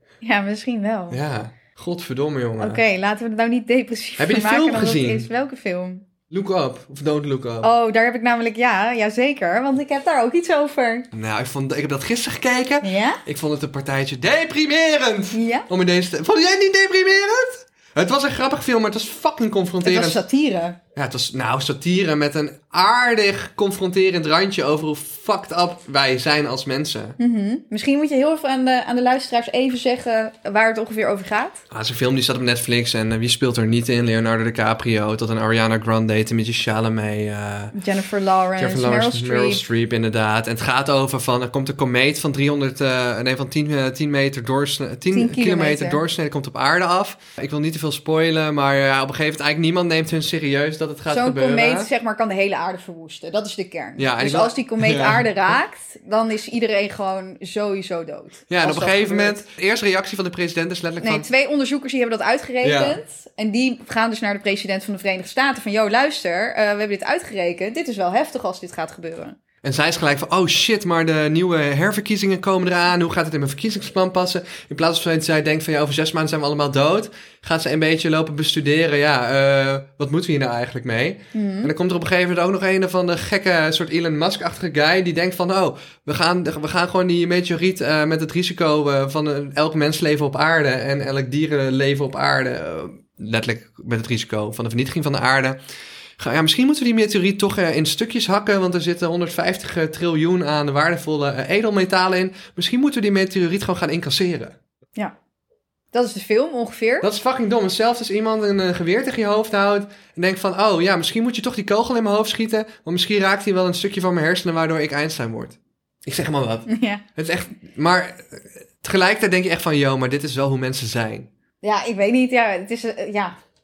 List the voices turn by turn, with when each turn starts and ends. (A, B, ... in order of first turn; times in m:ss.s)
0:00.2-0:01.2 A
0:01.1-0:02.8 B
0:02.6-0:06.1 A
0:04.2-0:05.3 B
0:06.3-0:07.7 B
0:07.6-0:11.1 A
0:11.1-0:20.2 B
0:12.8-0:13.2 A
0:15.3-0:15.7 A
0:19.8-0:20.8 A
0:21.0-0:27.2 B
0:27.2-0:31.6 A
0:31.7-0:37.8 B
0:37.7-0:39.6 A
0:38.6-0:51.9 B
0:45.1-0:46.0 A
0:51.1-0:59.4 A
0:54.0-0:55.5 B
0:58.5-1:01.3 B
1:01.0-1:09.4 A
1:02.6-1:03.0 B
1:09.6-1:35.6 B
1:21.3-1:21.7 A
1:36.2-1:44.6 B
1:45.9-1:47.1 A
1:47.0-2:01.3 B
1:56.7-1:57.0 A
2:01.6-2:03.4 A